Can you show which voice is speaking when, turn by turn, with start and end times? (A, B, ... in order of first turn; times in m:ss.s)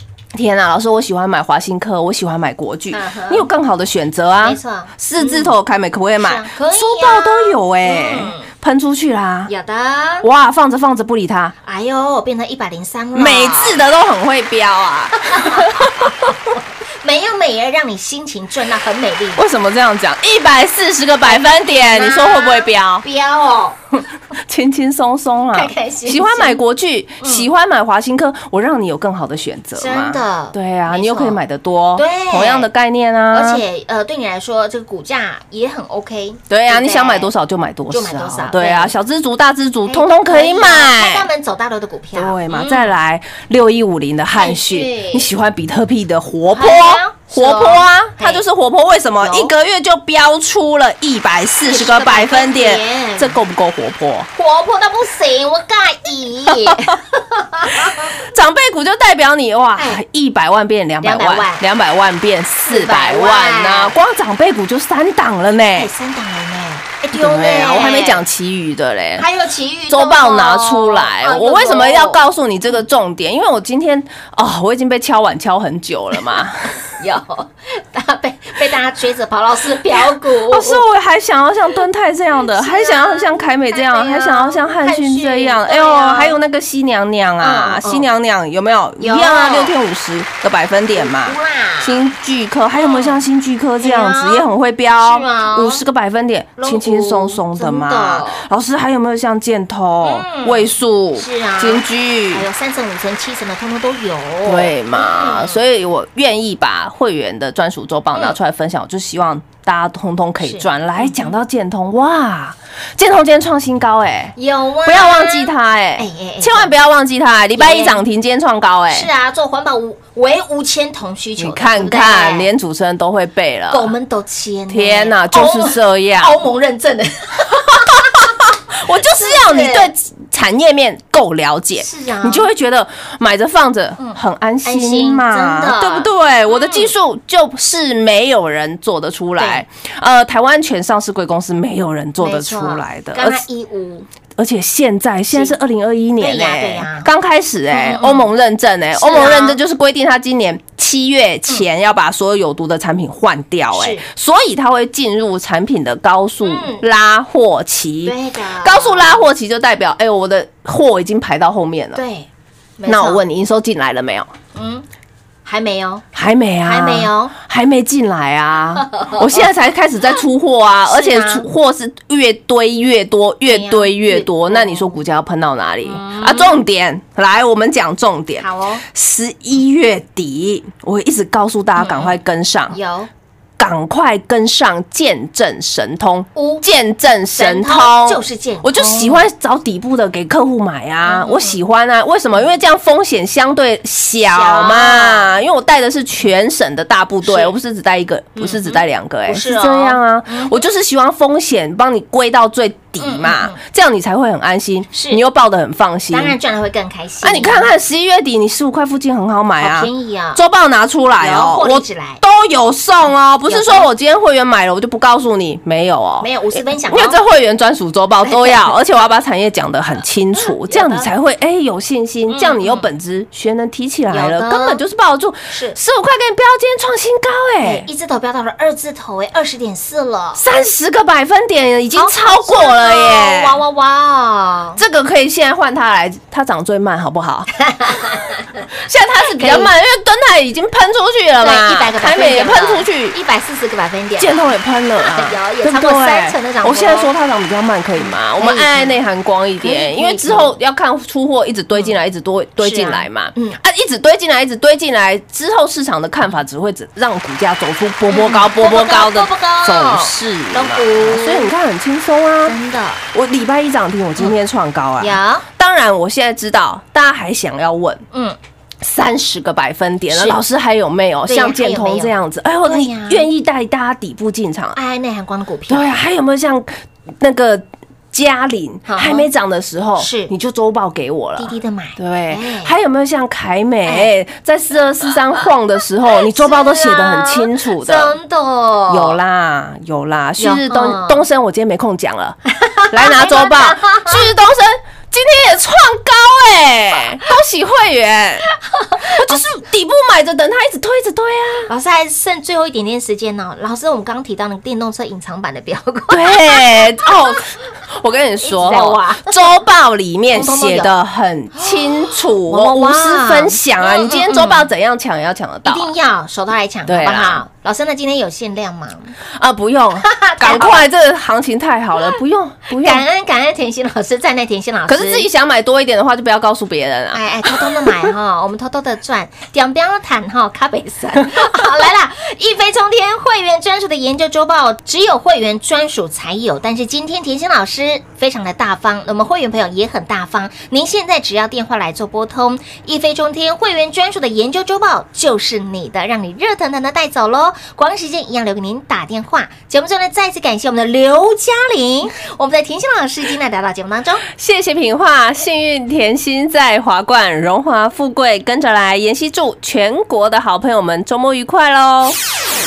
0:00.3-0:09.5 A
0:02.9-0:03.5 B
0:04.4-0:05.5 B
0:06.2-0:08.5 B
0:09.5-0:10.3 B
0:10.2-0:11.6 A
0:11.6-0:13.8 B
0:13.1-0:16.3 A
0:15.2-0:19.4 B
0:19.4-0:23.1 A
0:21.2-0:23.8 B
0:24.4-0:33.6 A
0:25.5-0:26.6 B
0:27.2-0:27.5 B
0:29.8-0:31.4 B
0:32.0-0:32.7 B
0:33.3-0:37.3 B
0:36.5-0:41.3 A
0:37.9-0:38.9 B
0:39.9-0:43.0 B
0:42.1-0:54.3 A
0:44.4-0:45.3 B
0:46.5-0:48.4 B
0:49.2-0:49.5 B
0:51.7-0:53.4 B
0:54.4-0:58.2 B
0:56.5-0:56.9 A
0:57.8-1:05.9 A
1:01.0-1:01.6 B
1:02.7-1:04.0 B
1:05.8-1:08.2 B
1:07.1-1:09.3 A
1:09.2-1:12.2 B
1:09.9-1:16.8 A
1:17.0-1:20.8 B
1:20.5-1:42.5 A
1:22.5-1:26.4 B
1:27.4-1:28.1 B
1:29.0-1:29.7 B
1:31.0-1:32.0 B
1:32.8-1:33.2 B
1:33.8-1:35.8 B
1:36.6-1:38.4 B
1:40.0-1:45.6 B
1:44.4-1:59.1 A
1:50.4-1:51.4 B
1:54.4-1:56.7 B
1:57.6-1:58.0 B
1:58.9-2:02.5 B
2:01.4-2:04.0 A
2:03.7-2:09.9 B
2:04.7-2:06.4 A
2:08.7-2:23.4 A
2:11.8-2:12.5 B
2:14.0-2:16.9 B
2:19.4-2:19.6 B
2:22.2-2:24.1 B
2:24.4-2:42.0 A
2:25.3-2:25.6 B
2:26.2-2:27.1 B
2:27.7-2:28.3 B
2:29.0-2:29.6 B
2:33.7-2:34.0 B
2:36.4-2:36.8 B
2:38.0-2:39.3 B
2:42.0-2:43.2 B
2:42.9-2:44.3 A
2:44.6-2:44.9 B
2:45.4-2:46.1 B
2:46.1-3:02.8 A
2:46.6-2:47.3 B
2:49.0-2:49.2 B
2:50.9-2:51.5 B
2:53.5-2:55.0 B
2:55.8-2:56.5 B
2:58.4-2:58.8 B
3:01.8-3:02.2 B
3:02.7-3:03.1 B
3:03.6-3:26.4 A
3:06.4-3:06.7 B
3:07.4-3:09.3 B
3:11.0-3:11.6 B
3:14.3-3:15.3 B
3:17.2-3:17.5 B
3:18.4-3:20.6 B
3:23.0-3:23.6 B
3:24.9-3:25.2 B
3:26.1-3:27.7 B
3:27.2-3:47.9 A
3:29.6-3:30.4 B
3:31.2-3:32.2 B
3:33.5-3:33.9 B
3:36.2-3:37.2 B
3:38.2-3:38.7 B
3:40.4-3:41.1 B
3:42.3-3:42.9 B
3:44.1-3:44.8 B
3:45.5-3:45.8 B
3:47.6-3:50.4 B
3:50.4-3:53.6 A
3:51.9-3:54.8 B
3:54.8-3:57.5 A
3:57.7-3:58.3 B
3:58.9-4:03.2 A
3:59.4-3:59.7 B
4:01.4-4:07.1 B
4:04.2-4:22.6 A
4:08.0-4:09.0 B
4:09.6-4:10.6 B
4:11.7-4:12.0 B
4:12.6-4:13.6 B
4:18.1-4:21.5 B
4:22.4-4:23.0 B
4:23.1-4:28.1 A
4:25.0-4:25.5 B
4:28.1-4:28.4 B
4:28.8-4:34.8 A
4:30.1-4:30.4 B
4:31.3-4:32.1 B
4:32.6-4:33.3 B
4:34.8-4:35.9 B
4:35.7-4:48.2 A
4:38.9-4:39.3 B
4:40.0-4:40.3 B
4:41.4-4:42.7 B
4:43.8-4:44.1 B
4:46.2-4:49.2 B
4:48.9-4:52.4 A
4:50.4-4:51.2 B
4:52.6-4:54.3 B
4:52.9-4:58.5 A
4:58.8-4:59.5 B
4:59.0-5:01.7 A
5:01.7-5:07.1 B
5:06.1-5:15.9 A
5:08.4-5:09.5 B
5:10.3-5:10.9 B
5:11.6-5:14.7 B
5:15.6-5:19.2 B
5:16.9-5:17.4 A
5:19.3-5:23.0 A
5:20.0-5:20.8 B
5:22.7-5:25.3 B
5:24.9-5:28.1 A
5:27.1-5:54.2 B
5:54.3-6:02.2 A